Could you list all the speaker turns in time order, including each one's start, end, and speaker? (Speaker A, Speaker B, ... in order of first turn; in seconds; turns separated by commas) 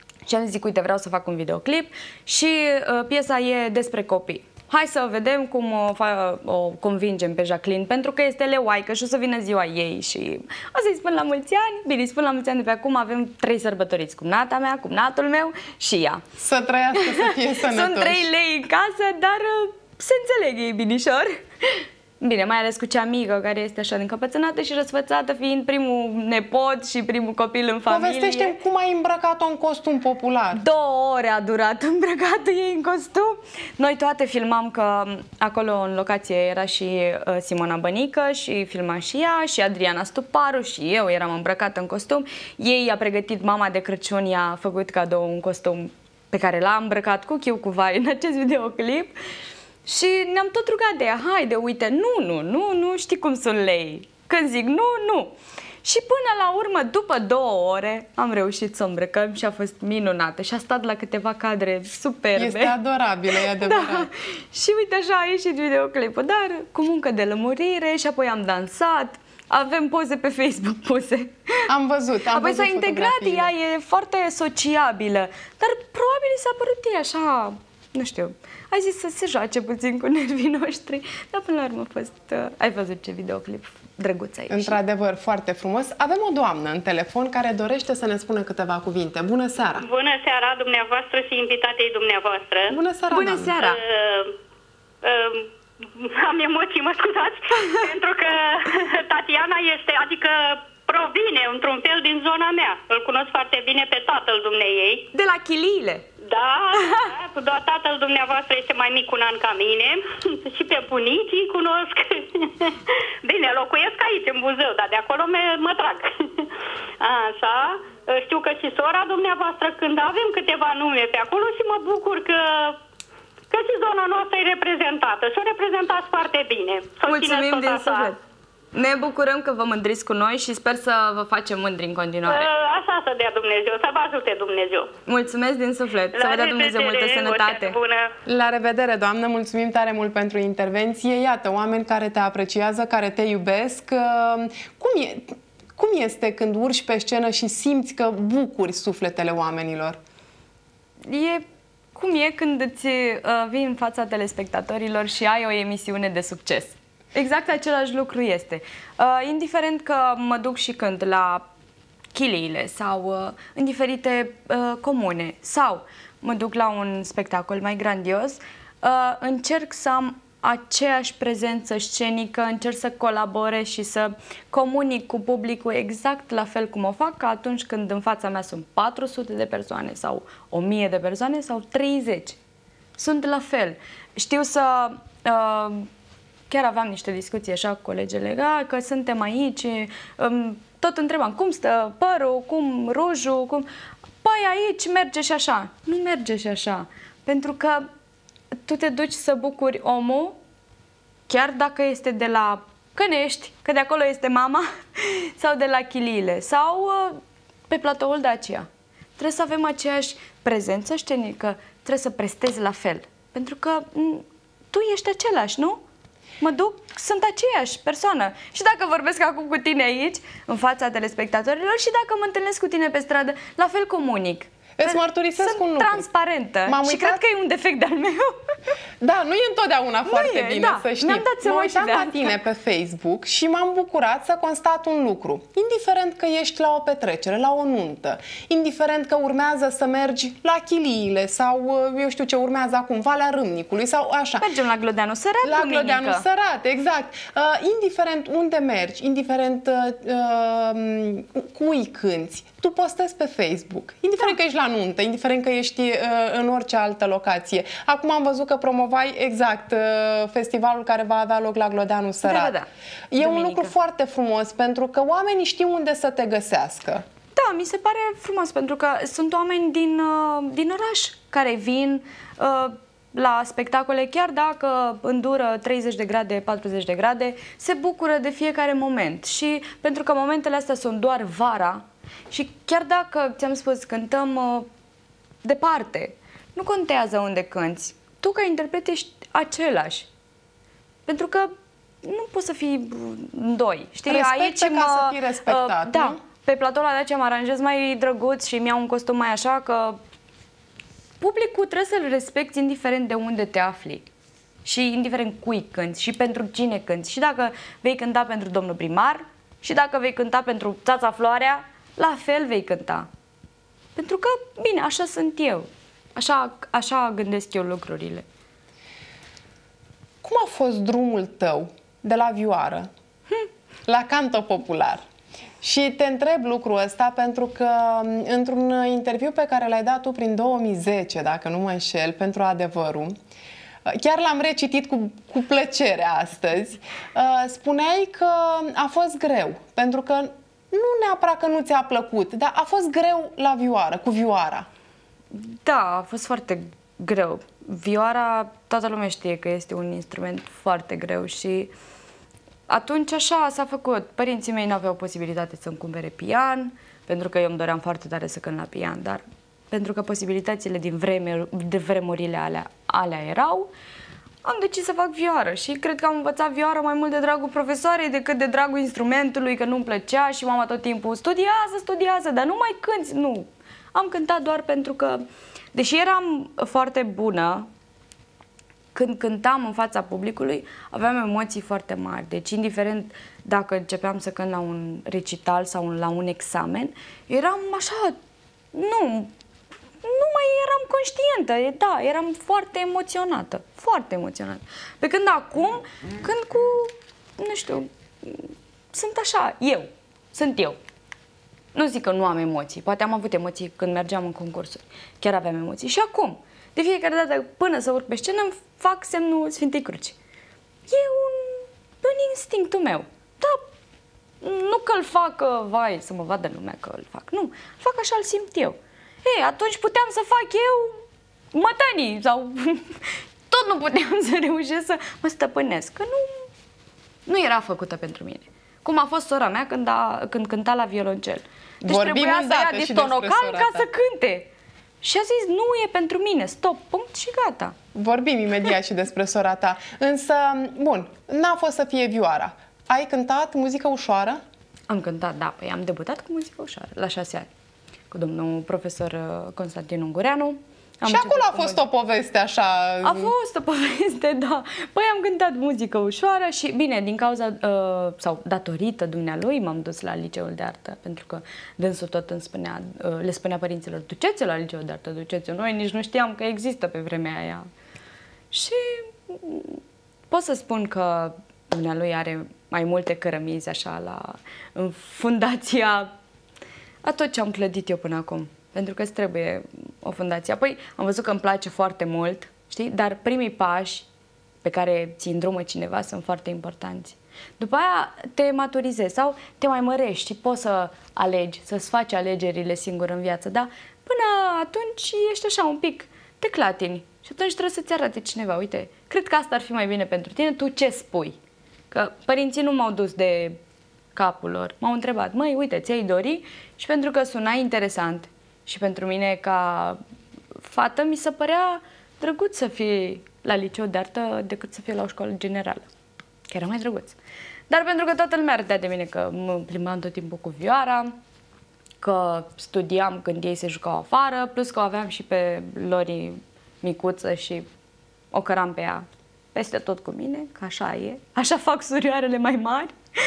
Speaker A: 0.3-16.2, Speaker B: 16.4-18.3, Speaker A: 16.9-28.6, Speaker B: 27.9-30.6, Speaker A: 30.5-49.1, Speaker A: 49.9-62.8, Speaker B: 62.4-64.1, Speaker A: 63.3-71.7, Speaker B: 71.7-73.5, Speaker A: 72.3-84.8, Speaker B: 84.5-89.9, Speaker C: 89.8-92.8, Speaker B: 92.7-93.6, Speaker A: 93.1-93.8, Speaker C: 93.6-94.3, Speaker C: 95.0-105.1, Speaker A: 97.6-97.8, Speaker A: 105.1-106.1, Speaker C: 106.2-122.8, Speaker A: 106.8-107.1, Speaker C: 123.5-128.1, Speaker A: 127.1-128.2, Speaker A: 128.7-132.5, Speaker C: 132.3-134.9, Speaker A: 135.1-137.8, Speaker C: 136.1-138.1, Speaker B: 138.3-150.0, Speaker A: 151.1-151.4, Speaker A: 151.9-161.5, Speaker A: 162.1-182.4, Speaker A: 183.0-185.9, Speaker A: 186.5-193.7, Speaker A: 194.2-197.9, Speaker A: 198.6-200.4, Speaker A: 201.3-208.7, Speaker A: 209.2-215.8, Speaker A: 216.4-228.5, Speaker B: 224.8-226.1, Speaker B: 226.7-227.2, Speaker B: 229.0-244.5, Speaker A: 230.1-232.3, Speaker A: 244.4-246.3, Speaker B: 245.4-262.6, Speaker A: 262.2-262.7, Speaker B: 263.1-267.0, Speaker A: 263.2-263.7, Speaker A: 267.4-284.7, Speaker A: 285.4-290.1, Speaker A: 291.1-300.0, Speaker B: 294.1-296.2, Speaker A: 301.2-304.1, Speaker A: 304.6-313.1, Speaker A: 314.0-318.3, Speaker B: 320.2-322.9, Speaker B: 323.9-325.0, Speaker B: 325.6-333.1, Speaker B: 333.9-344.7, Speaker A: 345.3-351.7, Speaker A: 352.7-363.7, Speaker A: 364.4-377.7, Speaker A: 378.9-388.2, Speaker A: 388.7-389.3, Speaker A: 390.0-400.8, Speaker A: 401.8-410.2, Speaker A: 410.9-413.7, Speaker A: 414.4-426.5, Speaker A: 427.3-434.5, Speaker B: 431.8-433.9, Speaker A: 435.0-437.8, Speaker B: 437.9-444.4, Speaker A: 444.9-447.5, Speaker A: 448.1-451.9, Speaker B: 451.1-453.3, Speaker A: 453.0-467.7, Speaker A: 468.5-476.1, Speaker A: 477.0-484.1, Speaker A: 484.6-501.4, Speaker A: 501.9-503.6, Speaker A: 504.1-510.0, Speaker A: 510.6-515.9, Speaker A: 516.5-517.2, Speaker A: 517.7-521.2, Speaker A: 522.0-527.7, Speaker A: 528.3-533.0